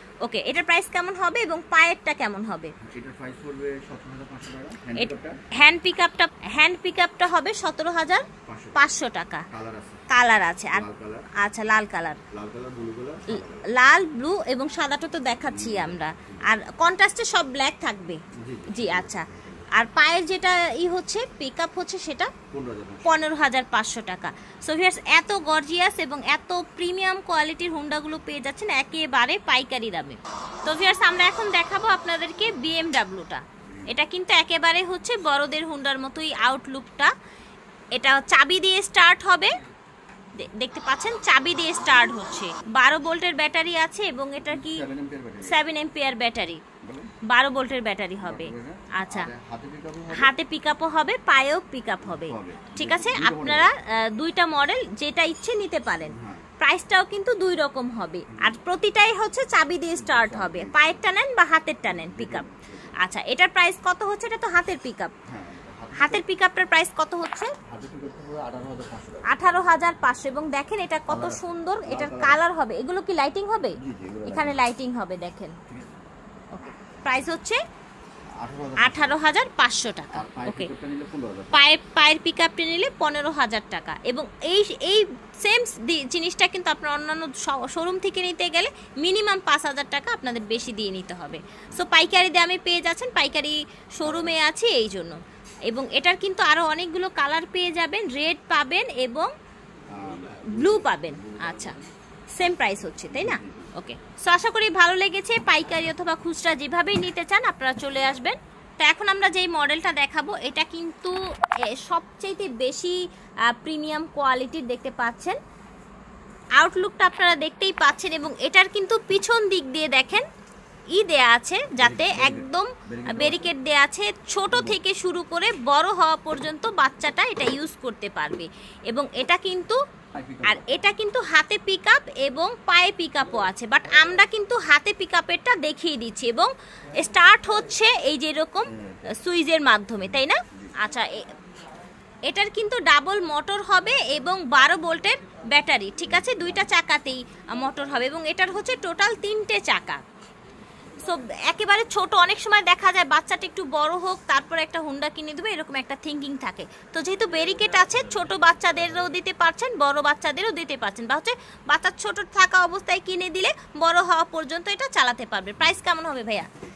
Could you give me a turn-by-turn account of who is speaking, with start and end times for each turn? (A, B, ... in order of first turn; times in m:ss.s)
0:00.2-0:02.7 A
0:02.8-0:05.4 B
0:04.9-0:09.4 A
0:08.4-0:08.9 B
0:09.5-0:10.0 B
0:10.1-0:12.2 A
0:10.7-0:11.3 B
0:12.3-0:13.7 B
0:13.3-0:22.3 A
0:15.4-0:16.4 B
0:18.3-0:19.7 B
0:22.5-0:23.2 B
0:23.0-0:37.1 A
0:33.6-0:34.0 B
0:37.9-0:39.5 A
0:40.4-0:44.8 A
0:44.4-0:45.6 B
0:45.4-0:46.6 A
0:46.8-0:47.1 B
0:47.3-0:49.3 A
0:48.2-0:50.3 B
0:50.1-1:05.1 A
0:52.0-0:53.7 B
0:56.0-0:56.5 B
0:58.3-0:58.6 B
0:59.9-1:01.0 B
1:01.9-1:03.0 B
1:05.3-1:06.2 B
1:06.0-1:07.5 A
1:07.6-1:09.4 B
1:09.2-1:15.6 A
1:11.1-1:12.4 B
1:13.8-1:14.6 B
1:15.7-1:16.0 B
1:16.5-1:17.6 A
1:18.4-1:19.2 B
1:18.8-1:20.7 A
1:20.1-1:21.6 B
1:21.5-1:39.3 A
1:34.0-1:34.4 B
1:39.9-1:41.9 B
1:40.5-1:41.7 A
1:42.3-1:55.4 A
1:42.4-1:43.7 B
1:56.6-2:00.2 A
2:00.9-2:09.8 A
2:01.8-2:03.5 B
2:04.5-2:04.8 B
2:10.1-2:10.8 B
2:10.4-2:21.3 A
2:18.7-2:19.2 B
2:20.0-2:20.7 B
2:22.2-2:30.0 A
2:26.1-2:26.7 B
2:31.0-2:46.5 A